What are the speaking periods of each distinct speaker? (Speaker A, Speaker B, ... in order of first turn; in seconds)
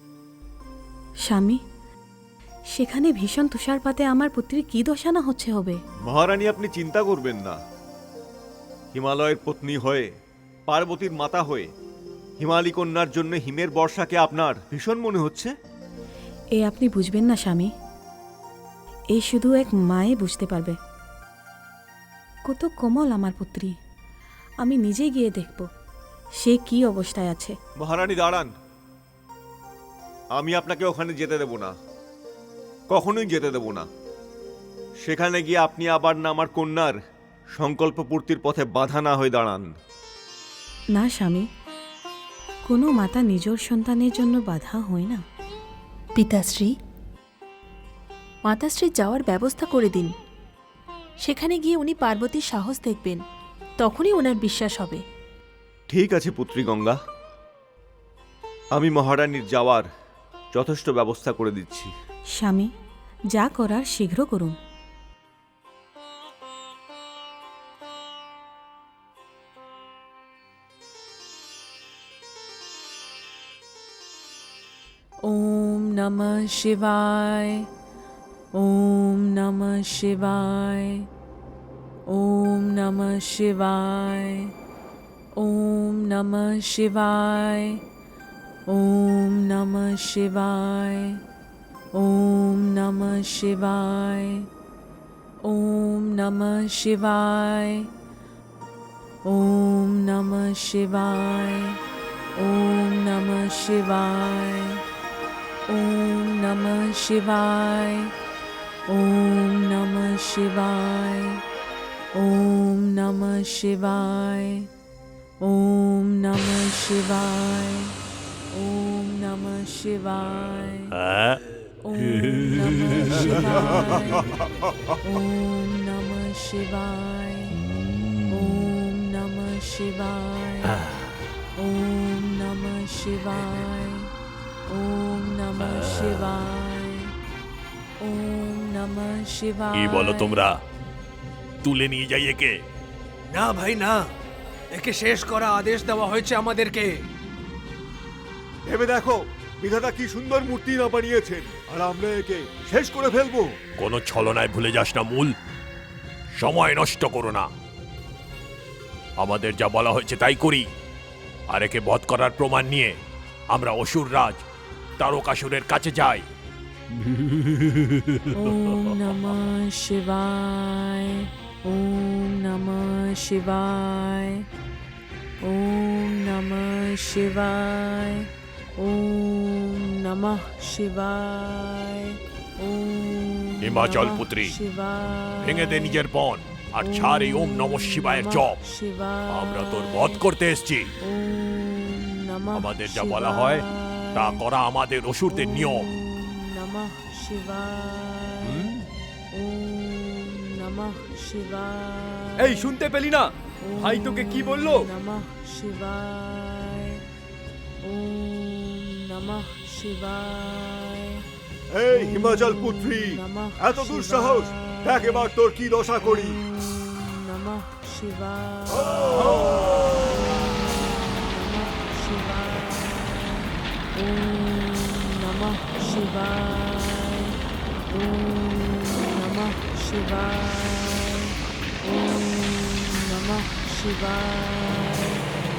Speaker A: 1.3-1.6, 2.7-5.8, 16.6-17.7, 19.1-20.8, 22.5-23.8, 24.6-25.7, 26.4-27.6, 41.0-41.5, 42.7-45.2, 62.3-62.7, 63.3-64.6
Speaker B: 6.1-7.6, 8.9-10.1, 10.7-11.7, 12.4-15.5, 27.8-28.5, 30.4-31.8, 32.9-33.9, 35.0-37.0, 37.6-39.7, 55.9-57.0, 58.7-59.9, 60.5-61.9, 148.7-153.6, 211.7-216.4, 219.0-219.4
Speaker C: 46.2-46.7, 48.5-50.1, 51.2-53.2, 53.8-55.0
Speaker D: 75.2-77.7, 78.5-81.1, 82.1-84.5, 85.4-87.8, 88.7-91.2, 92.0-94.5, 95.4-97.9, 99.3-101.8, 102.4-104.8, 105.7-108.1, 108.9-111.4, 112.2-114.7, 115.4-117.9, 118.5-121.0, 121.8-124.4, 125.0-127.6, 128.3-130.8, 131.6-134.1, 134.7-137.1, 138.0-140.4, 168.3-174.5, 175.4-186.0, 186.8-190.2, 191.0-194.4, 195.3-198.7, 199.3-202.7, 203.6-207.0, 207.8-211.2, 211.9-215.3, 216.0-227.4, 227.9-235.2
Speaker E: 120.9-121.4, 123.1-123.6, 139.7-140.6, 141.6-142.6, 153.8-155.3, 156.4-157.5, 159.2-160.7, 161.5-162.9, 163.5-164.4, 165.0-166.2, 183.6-184.6, 185.4-188.6, 189.3-190.9, 192.6-195.9, 198.4-198.8
Speaker F: 143.3-144.1, 144.7-147.0
Speaker G: 202.4-204.9